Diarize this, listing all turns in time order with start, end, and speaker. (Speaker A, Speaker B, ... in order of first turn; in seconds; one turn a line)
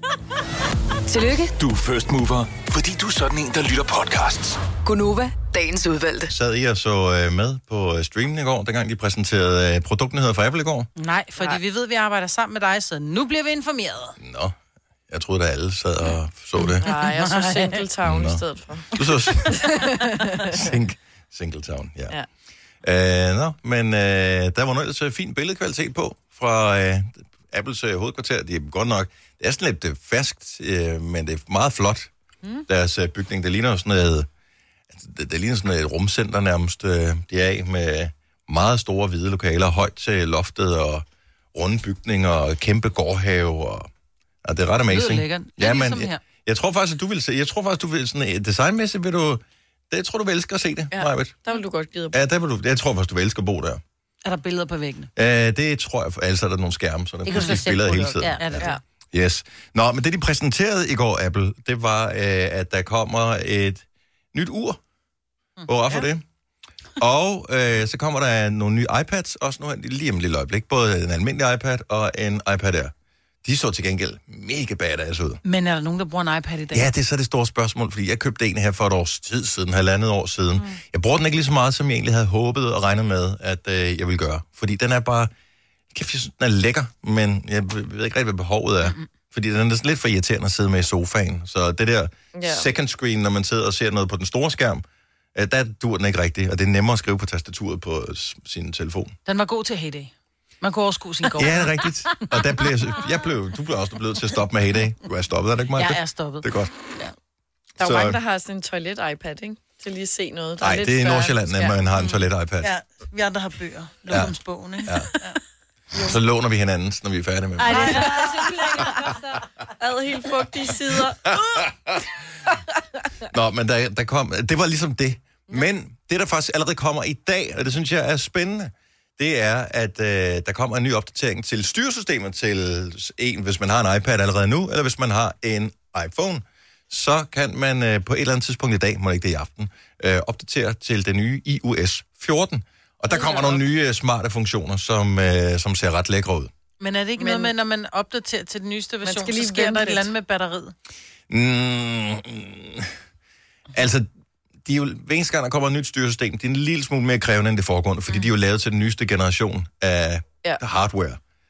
Speaker A: 1.1-1.5
Speaker B: 1.6-4.7
Speaker A: 4.8-6.3
Speaker C: 6.3-10.9
Speaker D: 10.9-14.2
Speaker C: 14.2-14.6
Speaker C: 15.1-16.9
Speaker E: 16.8-18.9
Speaker D: 16.9-17.8
Speaker C: 18.1-19.7
Speaker E: 19.4-20.6
Speaker C: 20.5-22.1
Speaker C: 22.8-32.1
Speaker C: 32.7-34.3
Speaker C: 34.9-43.9
Speaker C: 44.4-51.4
Speaker D: 44.9-46.2
Speaker E: 50.9-52.2
Speaker C: 52.1-53.8
Speaker D: 54.2-55.1
Speaker C: 55.2-64.8
Speaker F: 57.2-58.6
Speaker D: 57.3-57.8
Speaker D: 58.4-58.7
Speaker C: 65.7-66.2
Speaker C: 67.0-72.9
Speaker C: 73.4-75.4
Speaker D: 75.4-76.9
Speaker C: 76.7-85.3
Speaker C: 85.9-99.2
Speaker E: 92.3-92.7
Speaker D: 99.2-101.8
Speaker C: 101.4-106.7
Speaker D: 105.8-106.5
Speaker E: 107.8-111.8
Speaker C: 107.8-108.2
Speaker C: 110.6-112.7
Speaker D: 112.6-115.3
Speaker C: 114.1-115.1
Speaker C: 116.0-118.0
Speaker F: 117.6-119.4
Speaker D: 117.7-118.1
Speaker E: 117.7-118.6
Speaker E: 119.8-121.7
Speaker C: 123.3-146.5
Speaker D: 143.2-143.6
Speaker D: 146.8-150.7
Speaker E: 147.2-147.5
Speaker E: 149.0-150.1
Speaker C: 151.3-152.9
Speaker C: 153.7-154.1
Speaker C: 154.6-161.2